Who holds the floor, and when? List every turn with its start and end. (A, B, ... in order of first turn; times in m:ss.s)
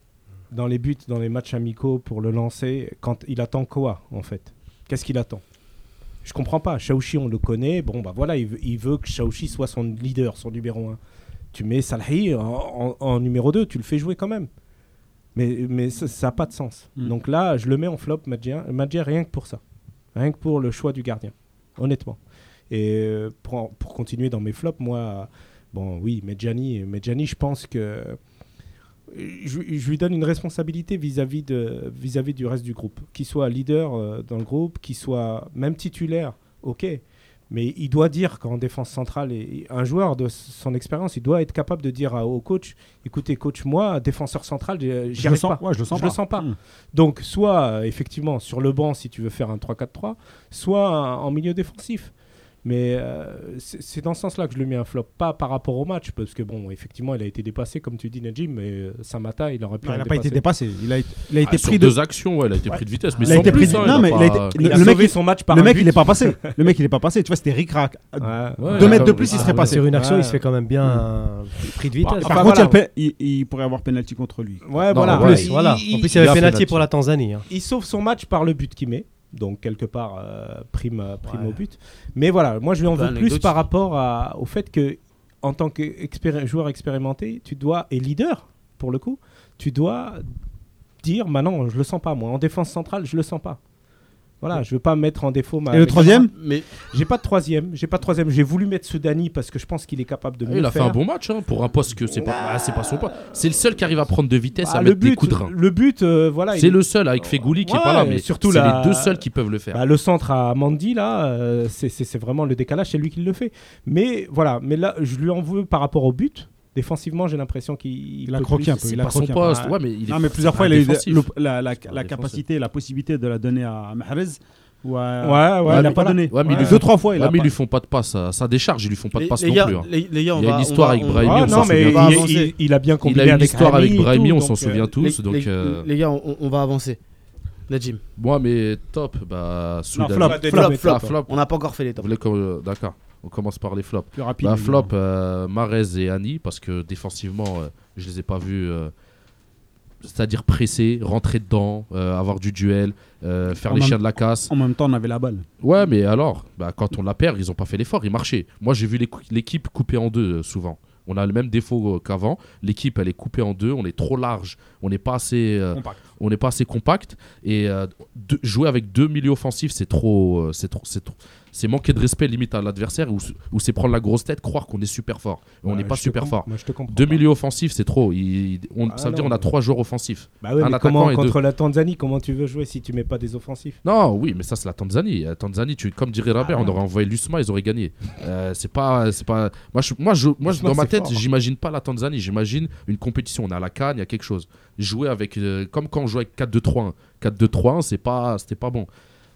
0:00.5-0:05.4 A
0:06.2-0:11.0 A
0:11.5-0:14.5 A
0:15.4-0:19.6 A
0:20.2-0:22.2 A
0:22.7-0:28.2 A
0:29.1-0:52.1 A
0:45.2-0:46.6 B
0:52.6-1:00.4 A
0:59.8-1:02.0 B
1:01.4-1:04.9 C
1:03.2-1:06.5 A
1:03.2-1:09.8 B
1:08.2-1:10.4 A
1:08.6-1:09.6 C
1:08.8-1:12.5 D
1:12.0-1:12.8 A
1:12.2-1:15.2 B
1:14.6-1:16.5 A
1:14.9-1:15.5 C
1:15.1-1:17.5 D
1:16.1-1:16.8 C
1:17.5-1:30.2 A
1:22.9-1:23.6 E
1:31.0-1:33.6 A
1:34.4-1:41.0 A
1:35.7-1:36.3 B
1:36.3-1:36.7 E
1:40.4-1:45.5 C
1:42.0-1:43.4 A
1:44.6-1:59.7 A
1:46.5-1:49.8 C
1:58.3-2:07.5 B
1:59.0-2:01.3 C
2:01.9-2:02.4 C
2:05.2-2:06.8 A
2:05.6-2:12.2 C
2:09.2-2:12.5 E
2:11.2-2:14.9 A
2:13.0-2:15.9 C
2:15.0-2:17.0 E
2:17.7-2:18.0 E
2:18.2-2:21.4 C
2:20.0-2:20.5 B
2:20.2-2:21.2 A
2:20.3-2:22.1 E
2:22.0-2:28.9 C
2:24.2-2:24.9 B
2:30.0-2:34.5 C
2:33.6-2:35.5 B
2:35.6-3:01.4 C
2:45.7-2:46.0 B
2:55.7-2:57.2 A
2:58.9-2:59.5 A
3:00.4-3:03.8 A
3:03.8-3:18.9 C
3:06.4-3:06.8 A
3:10.4-3:11.2 A